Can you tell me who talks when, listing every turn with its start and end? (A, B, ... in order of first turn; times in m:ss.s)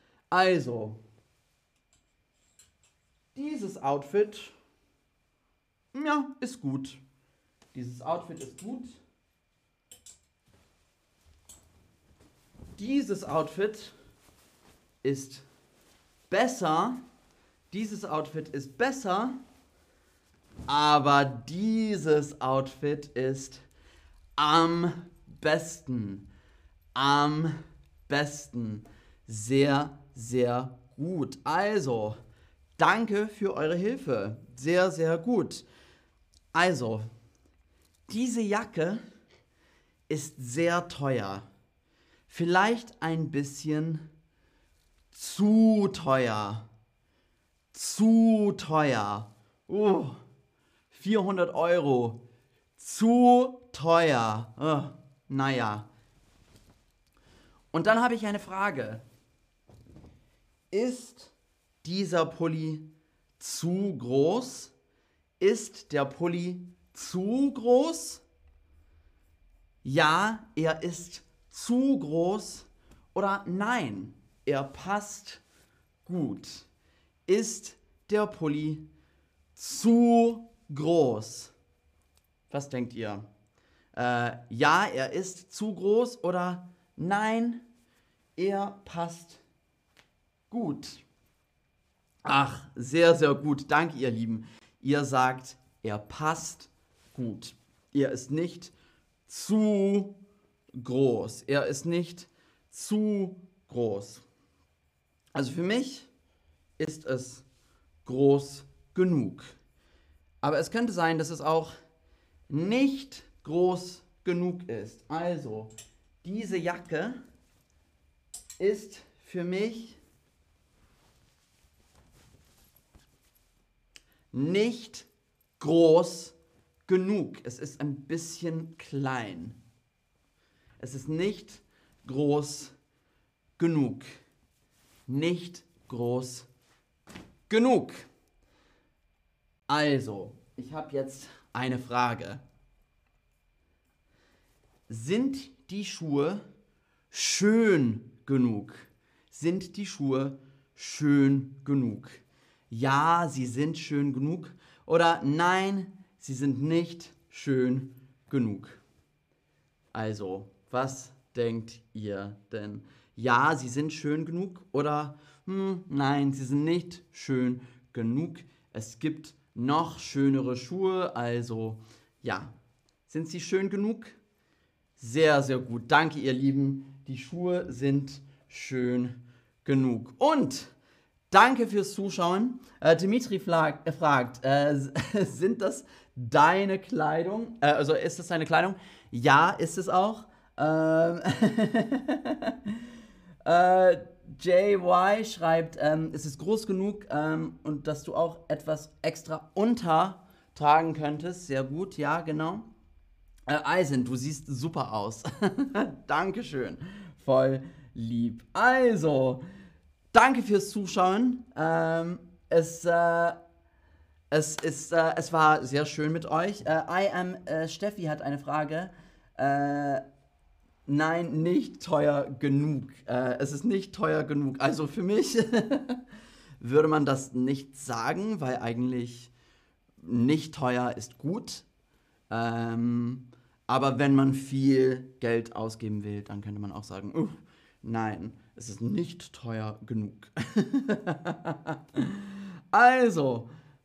0:00.3-0:01.0 A
0:03.3-0:04.5 A
0:05.9-0:07.0 A
0:07.7-0:09.0 A
0:12.8-0:13.9 A
0:15.0-0:15.4 A
0:16.3-0:17.0 A
0:17.7-0:19.4 A
0:20.7-0:23.6 A
0:24.4-0:26.3 A
0:27.0-0:32.2 A
0:32.8-0:35.6 A
0:36.5-0:37.1 A
0:38.1-0:39.0 A
0:40.1-0:41.5 A
0:42.3-0:44.1 A
0:45.1-0:46.7 A
0:47.7-0:50.2 A
0:50.9-0:52.2 A
0:52.8-0:55.9 A
0:57.7-0:59.0 A
1:00.7-1:02.9 A
1:03.4-1:04.7 A
1:05.4-1:08.2 A
1:09.8-1:15.4 A
1:16.0-1:16.7 A
1:17.3-1:18.9 A
1:19.6-1:21.5 A
1:22.5-1:23.3 A
1:23.9-1:27.6 A
1:28.4-1:29.4 A
1:30.5-1:31.0 A
1:32.2-1:38.7 A
1:39.3-1:40.2 A
1:40.7-1:44.2 A
1:45.3-1:46.1 A
1:46.8-1:47.4 A
1:48.0-1:49.5 A
1:50.4-1:51.7 A
1:52.5-1:57.2 A
1:58.6-2:00.0 A
2:04.3-2:06.4 A
2:06.9-2:09.6 A
2:10.8-2:12.7 A
2:13.6-2:14.1 A
2:15.1-2:16.5 A
2:17.5-2:18.1 A
2:19.7-2:22.4 A
2:24.9-2:26.4 A
2:27.1-2:38.8 A
2:39.9-2:52.6 A
2:53.1-2:54.2 A
2:55.0-3:00.7 A
3:01.3-3:12.8 A
3:13.4-3:22.7 A
3:23.5-3:29.4 A
3:30.1-3:33.4 A
3:34.3-3:40.0 A
3:40.9-3:46.0 A
3:46.6-3:49.3 A
3:50.0-3:51.7 A
3:52.3-4:03.5 A